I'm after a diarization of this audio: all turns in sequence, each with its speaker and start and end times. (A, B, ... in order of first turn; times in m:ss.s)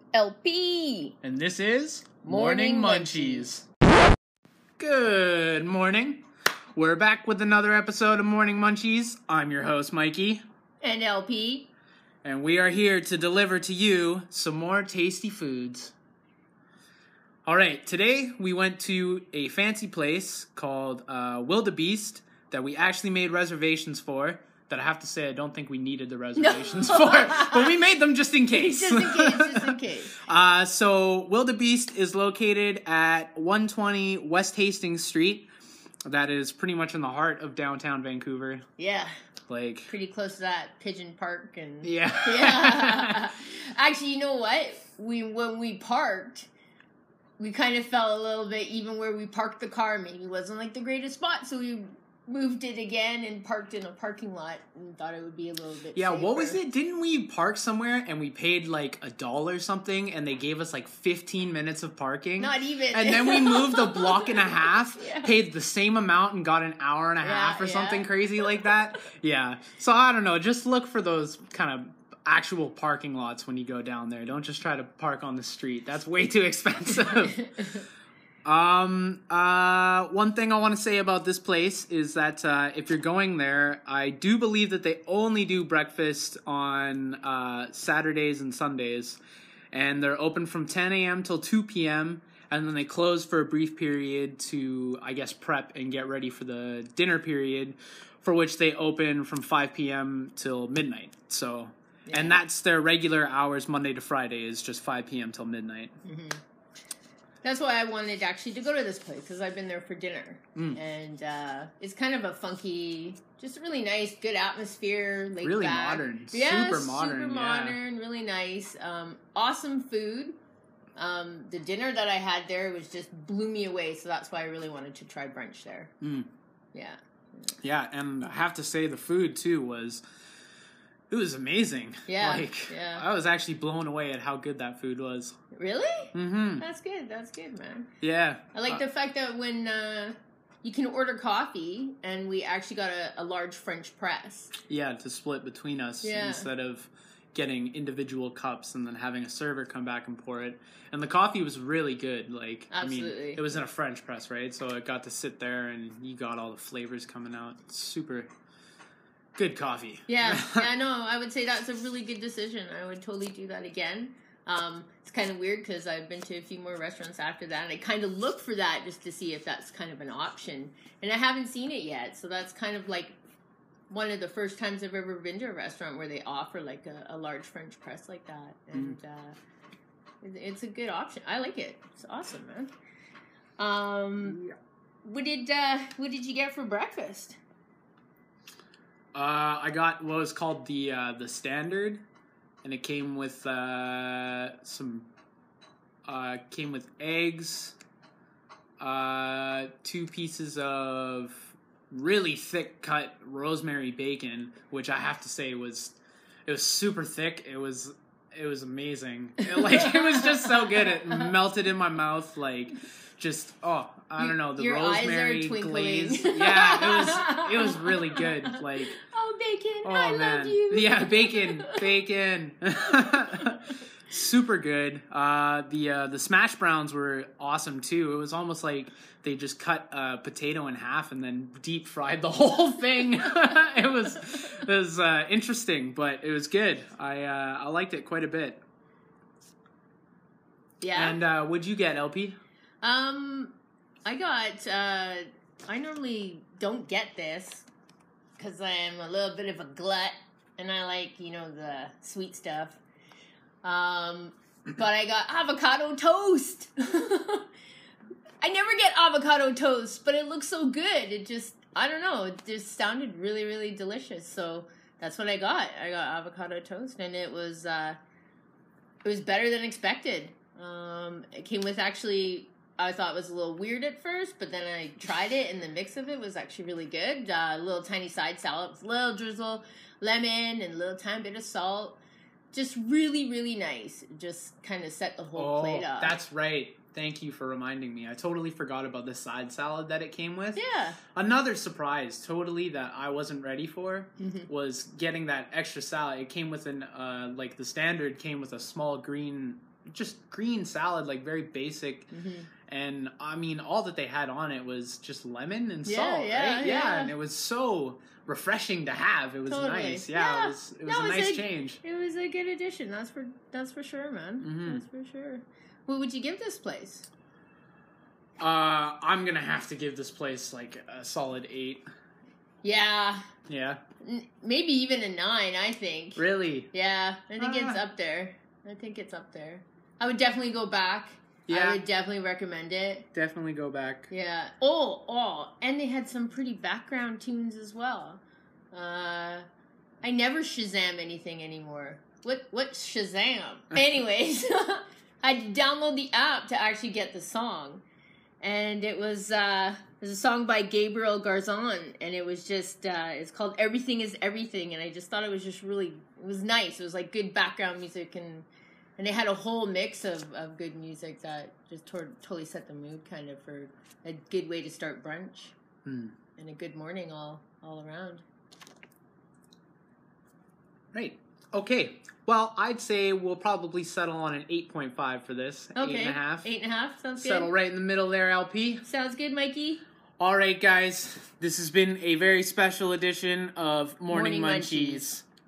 0:00.1-0:01.2 A
0:01.2-0:03.6 B
0:02.2-0:03.5 A
0:04.8-0:10.4 B
0:10.8-0:11.7 A
0:12.2-0:15.9 B
0:17.4-0:35.5 B
0:26.4-0:27.8 A
0:28.5-0:30.2 A
0:36.0-0:38.6 B
0:38.8-0:39.1 A
0:39.5-0:39.9 B
0:39.9-0:46.5 A
0:41.8-0:43.3 B
0:47.4-0:56.6 A
0:55.9-1:17.5 B
1:02.4-1:05.3 A
1:07.2-1:08.7 A
1:17.4-1:17.8 A
1:18.4-1:29.2 B
1:29.7-1:45.9 B
1:42.1-1:42.4 A
1:46.0-1:46.4 A
1:47.4-2:00.4 A
1:55.4-1:57.8 B
2:01.0-2:05.9 A
2:06.0-2:06.3 B
2:06.7-2:07.6 A
2:07.6-2:10.0 B
2:11.1-2:15.4 B
2:12.1-2:13.0 A
2:15.5-2:17.9 A
2:16.1-2:16.6 B
2:18.0-2:18.8 B
2:18.5-2:24.5 A
2:24.7-2:38.3 B
2:26.0-2:26.5 A
2:32.7-2:33.5 A
2:39.3-2:40.7 B
2:40.1-2:53.2 A
2:53.9-2:59.4 A
3:00.2-3:02.7 A
3:03.6-3:04.4 A
3:04.2-3:04.5 B
3:05.0-3:07.4 A
3:09.1-3:12.0 B
3:12.6-3:15.1 B
3:16.0-3:17.8 B
3:18.8-3:38.9 B
3:29.4-3:31.3 A
3:34.2-3:42.0 A
3:39.8-3:58.6 B
3:43.0-3:43.6 A
4:00.8-4:01.2 A
4:00.9-4:02.4 B
4:02.8-4:03.5 A
4:04.0-4:07.7 A
4:08.4-4:12.8 A
4:13.6-4:17.5 A
4:18.4-4:28.0 A
4:29.0-4:42.0 A
4:42.5-4:46.2 A
4:45.4-4:50.6 B
4:50.6-4:51.0 A
4:51.1-5:02.1 B
4:54.2-4:54.5 A
5:02.1-5:02.5 A
5:02.7-5:11.8 B
5:05.8-5:07.1 A
5:09.5-5:17.1 A
5:14.4-5:14.8 B
5:18.4-5:21.9 B
5:22.6-5:23.2 A
5:23.5-5:23.8 B
5:24.0-5:33.1 A
5:26.2-5:26.7 B
5:27.4-5:27.8 B
5:31.5-5:31.8 B
5:33.1-5:34.1 B
5:34.1-5:39.4 A
5:40.0-5:47.8 A
5:48.4-5:58.5 A
5:59.0-6:05.5 A
6:05.8-6:06.1 B
6:06.4-6:08.2 A
6:10.9-6:16.5 B
6:15.8-6:17.5 A
6:17.2-6:18.8 B
6:18.8-6:19.8 A
6:20.2-6:25.2 B
6:24.1-6:25.1 A